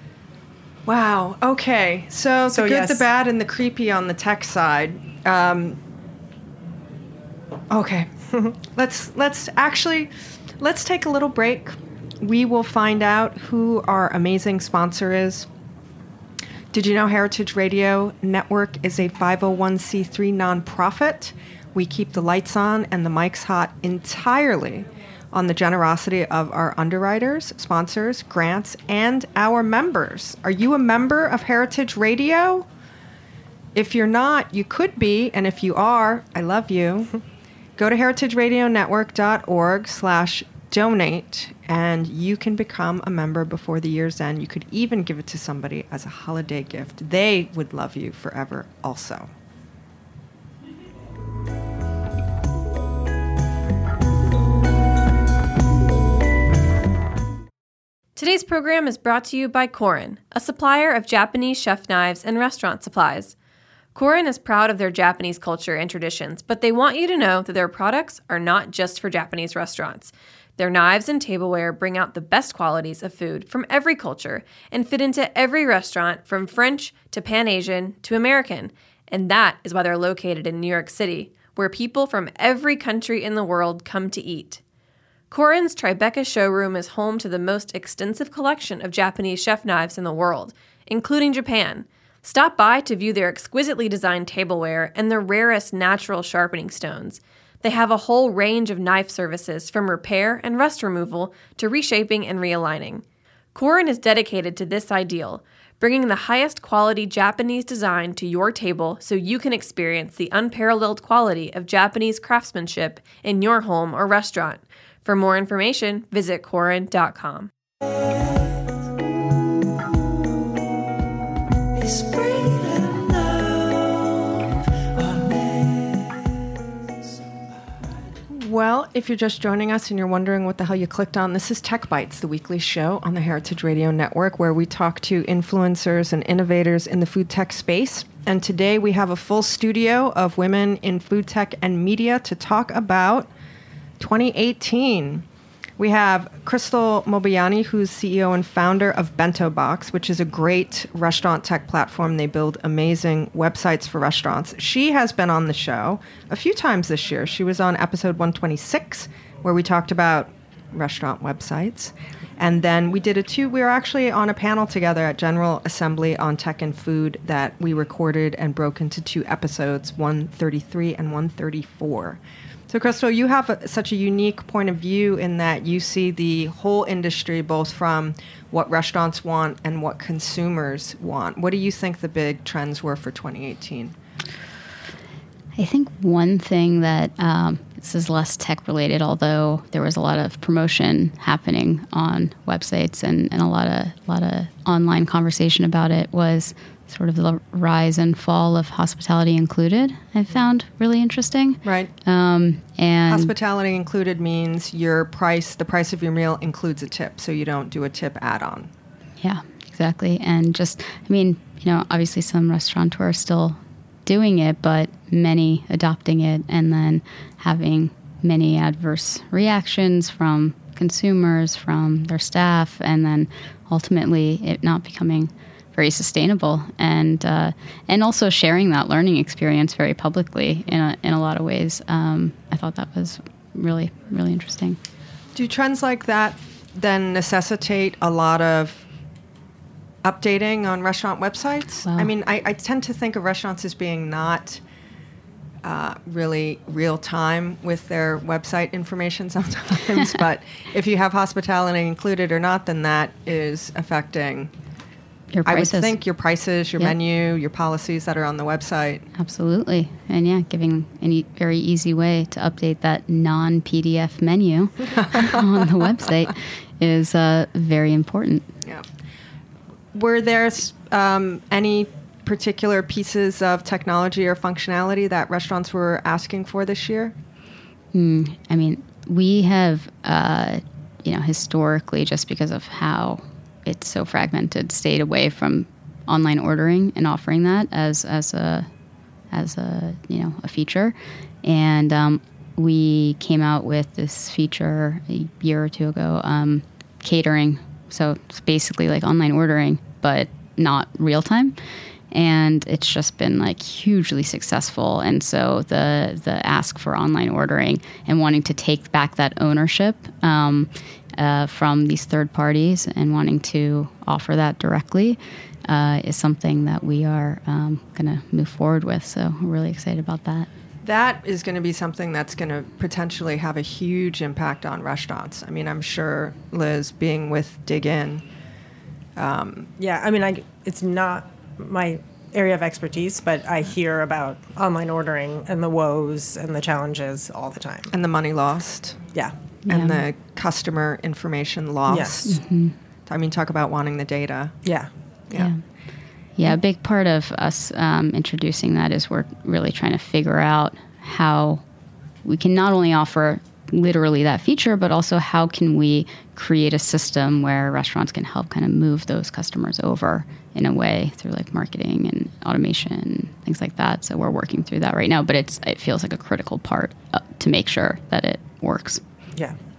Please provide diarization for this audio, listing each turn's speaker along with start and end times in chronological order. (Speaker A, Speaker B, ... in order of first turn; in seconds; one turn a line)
Speaker A: 0.9-5.8
Speaker B: 2.5-3.0
Speaker A: 7.7-8.1
Speaker A: 8.6-15.5
Speaker A: 16.7-32.7
Speaker A: 33.7-37.1
Speaker A: 37.8-49.3
Speaker C: 58.2-63.4
Speaker C: 64.0-84.6
Speaker C: 85.3-103.0
Speaker C: 103.5-117.5
Speaker A: 128.3-143.3
Speaker A: 144.0-145.2
Speaker A: 145.8-183.9
Speaker D: 185.6-203.3
Speaker A: 201.6-201.9
Speaker A: 203.1-208.7
Speaker D: 209.2-234.8
Speaker A: 235.3-238.9
Speaker A: 240.0-244.6
Speaker D: 241.9-242.1
Speaker A: 245.6-254.5
Speaker D: 255.3-256.0
Speaker A: 255.5-259.1
Speaker D: 259.2-268.5
Speaker A: 265.0-265.4
Speaker A: 269.9-277.1
Speaker D: 277.9-288.7
Speaker D: 289.3-301.6
Speaker D: 302.1-320.5
Speaker A: 320.8-328.2
Speaker A: 329.2-329.7
Speaker B: 329.8-337.9
Speaker A: 337.9-339.0
Speaker D: 339.7-340.1
Speaker A: 339.7-342.4
Speaker B: 341.9-342.4
Speaker D: 342.3-342.8
Speaker A: 343.1-344.6
Speaker B: 344.6-344.9
Speaker D: 345.3-345.6
Speaker D: 346.4-351.6
Speaker D: 352.2-369.0